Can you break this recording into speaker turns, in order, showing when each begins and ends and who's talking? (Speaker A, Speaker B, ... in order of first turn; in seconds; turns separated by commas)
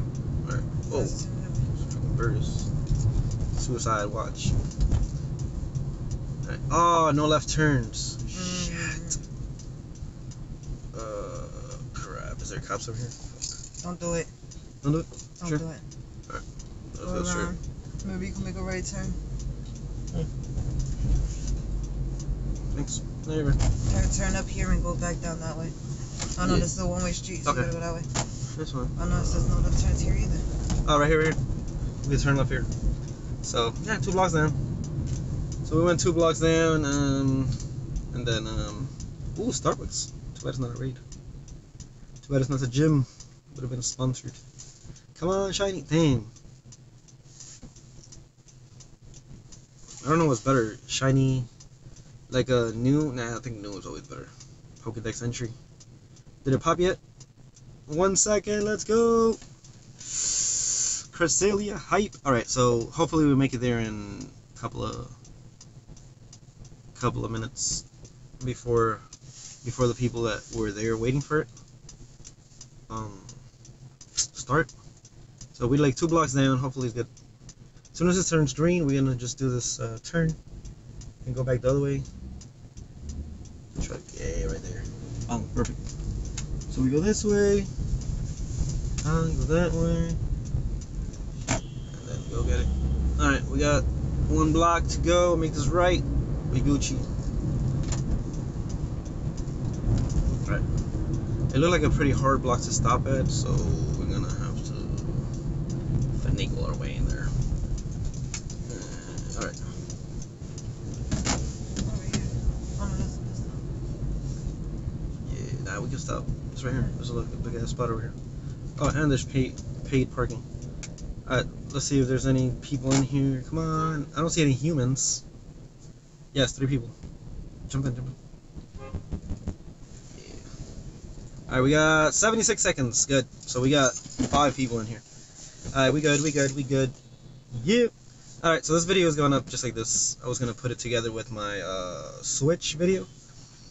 Speaker A: 0.4-1.2, Speaker B: 0.9-1.7, Speaker A: 1.7-2.7, Speaker A: 3.5-4.5, Speaker A: 6.4-9.2, Speaker B: 8.3-9.2, Speaker A: 10.9-13.3, Speaker B: 13.8-14.3, Speaker A: 14.8-15.6, Speaker B: 15.4-15.8, Speaker A: 16.3-17.6, Speaker B: 17.0-19.2, Speaker A: 22.7-23.6, Speaker B: 23.9-25.8, Speaker B: 26.4-28.1, Speaker A: 26.4-26.7, Speaker A: 27.4-27.7, Speaker A: 28.5-29.6, Speaker B: 29.0-30.5, Speaker A: 30.8-31.4, Speaker A: 32.0-32.7, Speaker A: 33.4-34.6, Speaker A: 35.6-37.5, Speaker A: 38.1-41.0, Speaker A: 42.2-44.4, Speaker A: 45.1-46.3, Speaker A: 50.0-51.5, Speaker A: 52.3-55.5, Speaker A: 56.4-57.0, Speaker A: 57.9-59.4, Speaker A: 60.1-65.1, Speaker A: 67.0-67.8, Speaker A: 68.4-69.0, Speaker A: 69.6-71.5, Speaker A: 72.9-73.4, Speaker A: 74.2-74.7, Speaker A: 75.5-77.1, Speaker A: 77.9-80.4, Speaker A: 81.2-82.1, Speaker A: 83.8-85.8, Speaker A: 86.7-87.7, Speaker A: 89.0-90.2, Speaker A: 91.9-97.1, Speaker A: 101.5-105.3, Speaker A: 106.2-107.3, Speaker A: 108.7-109.6, Speaker B: 111.8-113.7, Speaker A: 115.2-118.2, Speaker A: 118.8-120.5, Speaker A: 121.3-125.2, Speaker A: 126.3-126.9, Speaker A: 127.7-128.2, Speaker A: 130.2-130.4, Speaker A: 131.5-135.0, Speaker A: 135.7-136.9, Speaker A: 137.5-143.1